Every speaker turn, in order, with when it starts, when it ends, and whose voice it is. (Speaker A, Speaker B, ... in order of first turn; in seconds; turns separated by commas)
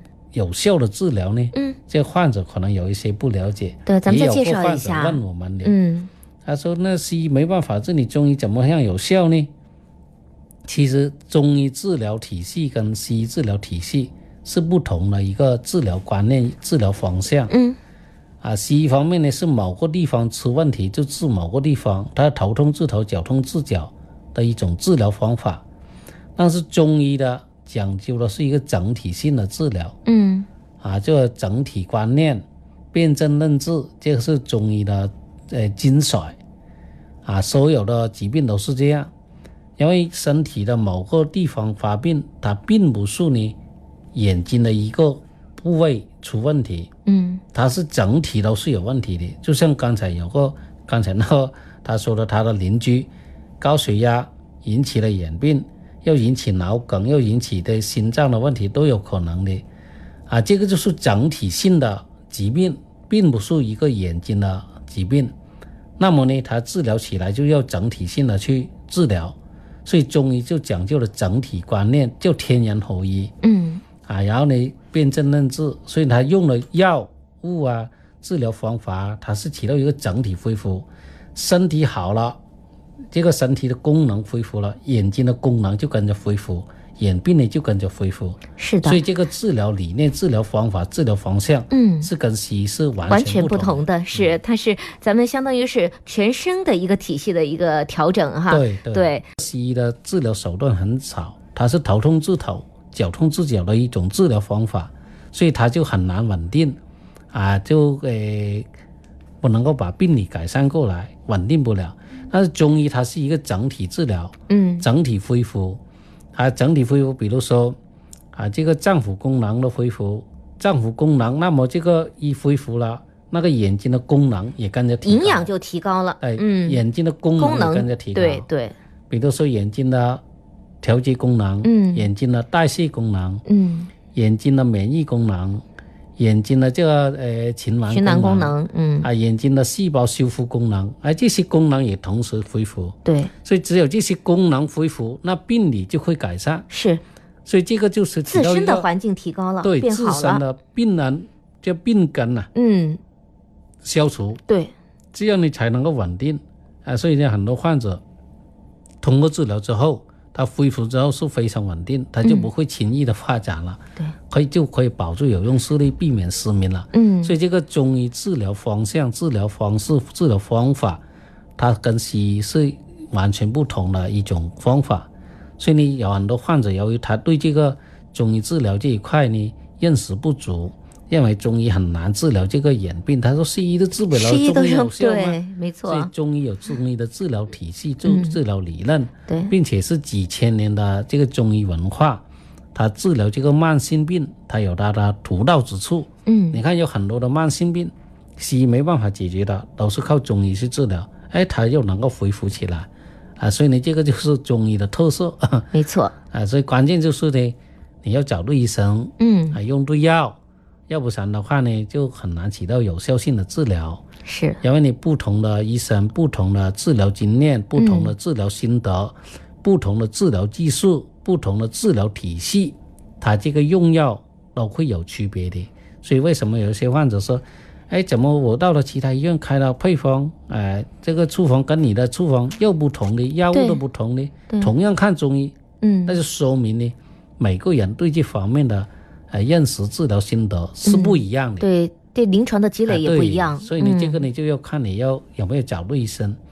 Speaker A: 0.3-5.7, Speaker B: 3.9-6.1, Speaker A: 6.5-9.5, Speaker A: 10.7-17.5, Speaker B: 17.5-17.8, Speaker A: 18.4-25.6, Speaker A: 26.4-30.0, Speaker B: 30.1-30.5, Speaker A: 30.8-36.4, Speaker A: 37.2-39.1, Speaker A: 39.8-43.6, Speaker A: 44.1-46.9, Speaker B: 47.1-47.4, Speaker A: 47.5-53.1, Speaker A: 53.6-59.6, Speaker A: 60.3-65.3, Speaker A: 66.0-73.3, Speaker B: 73.4-73.8, Speaker A: 74.0-82.4, Speaker A: 83.1-94.4, Speaker B: 88.6-89.0, Speaker B: 91.7-92.1, Speaker B: 93.1-99.2, Speaker A: 98.5-106.8, Speaker A: 107.3-108.7, Speaker A: 109.4-115.8, Speaker B: 114.5-114.9, Speaker A: 116.3-117.8, Speaker A: 118.3-125.5, Speaker B: 125.0-126.8, Speaker A: 126.2-128.5, Speaker B: 127.4-128.8, Speaker A: 129.1-130.2, Speaker A: 130.8-133.4, Speaker B: 131.6-132.1, Speaker B: 133.5-133.9, Speaker A: 134.1-135.6, Speaker A: 136.2-146.7, Speaker B: 137.9-139.1, Speaker B: 143.1-143.3, Speaker B: 146.7-147.0, Speaker A: 147.5-148.9, Speaker B: 148.3-150.4, Speaker A: 149.6-152.5, Speaker B: 152.6-153.0, Speaker A: 153.8-154.4, Speaker B: 154.5-154.7, Speaker A: 155.1-158.0, Speaker A: 159.0-171.0, Speaker B: 166.9-167.3, Speaker A: 171.6-175.1, Speaker A: 175.6-192.2, Speaker B: 184.1-186.1, Speaker B: 188.1-188.4, Speaker A: 192.7-205.7, Speaker B: 196.3-196.6, Speaker B: 205.7-206.2, Speaker A: 206.3-210.4, Speaker B: 209.2-209.6, Speaker A: 210.9-214.0, Speaker B: 214.3-214.6, Speaker A: 214.6-241.7, Speaker B: 217.8-218.2, Speaker B: 233.5-233.8, Speaker B: 235.8-236.2, Speaker B: 240.8-244.2, Speaker A: 242.9-246.4